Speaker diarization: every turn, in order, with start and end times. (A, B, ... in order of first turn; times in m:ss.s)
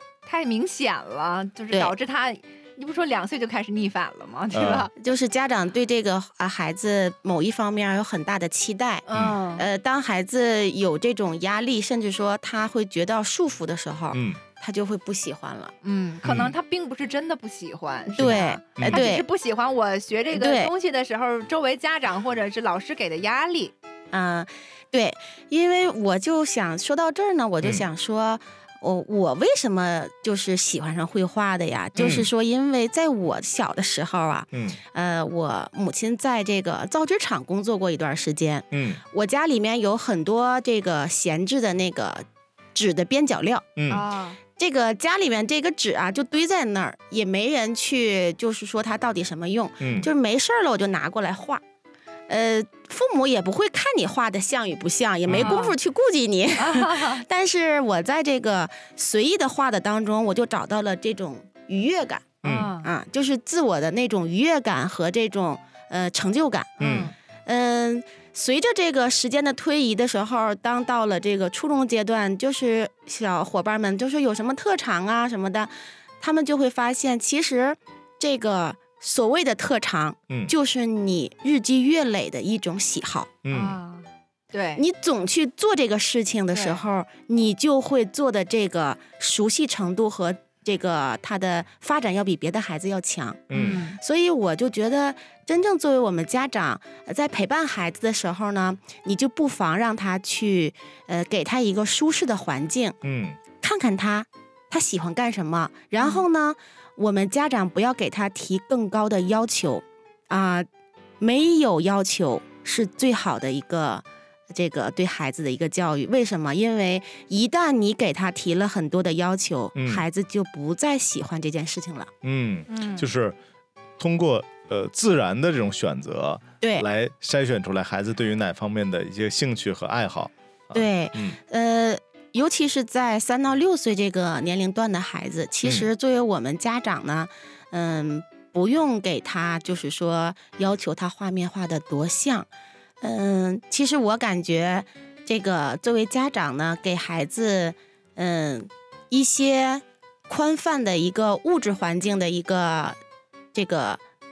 0:00.3-0:04.9 A
0:04.5-0:04.9 B
0:05.0-0:15.7 C
0:09.1-0:09.7 A
0:14.1-0:14.4 B
0:15.8-0:23.7 A
0:16.2-0:16.6 B
0:18.1-0:19.2 C
0:18.2-0:19.1 B
0:20.3-0:20.7 C
0:24.1-0:43.7 C
0:32.0-0:32.3 B
0:34.5-0:34.8 B
0:38.7-0:39.0 B
0:43.8-0:44.0 B
0:43.9-0:44.4 A
0:44.6-0:51.6 C
0:49.8-0:50.1 B
0:52.3-1:23.3 C
0:55.3-0:55.6 B
0:55.3-0:55.8 A
0:56.6-0:57.2 A
1:02.4-1:02.9 A
1:02.4-1:02.7 B
1:06.8-1:07.1 B
1:06.8-1:07.1 A
1:23.4-1:23.8 B
1:23.5-1:24.8 A
1:24.8-1:43.0 C
1:26.5-1:26.8 A
1:33.5-1:33.8 B
1:33.5-1:34.0 A
1:43.0-1:43.4 B
1:43.6-1:50.7 C
1:46.0-1:46.2 A
1:51.2-2:02.1 C
1:59.8-2:00.0 B
2:02.2-2:03.4 B
2:02.7-2:03.1 A
2:04.0-2:11.4 B
2:06.6-2:06.9 C
2:10.7-2:22.5 C
2:23.0-2:33.0 C
2:33.5-2:34.0 C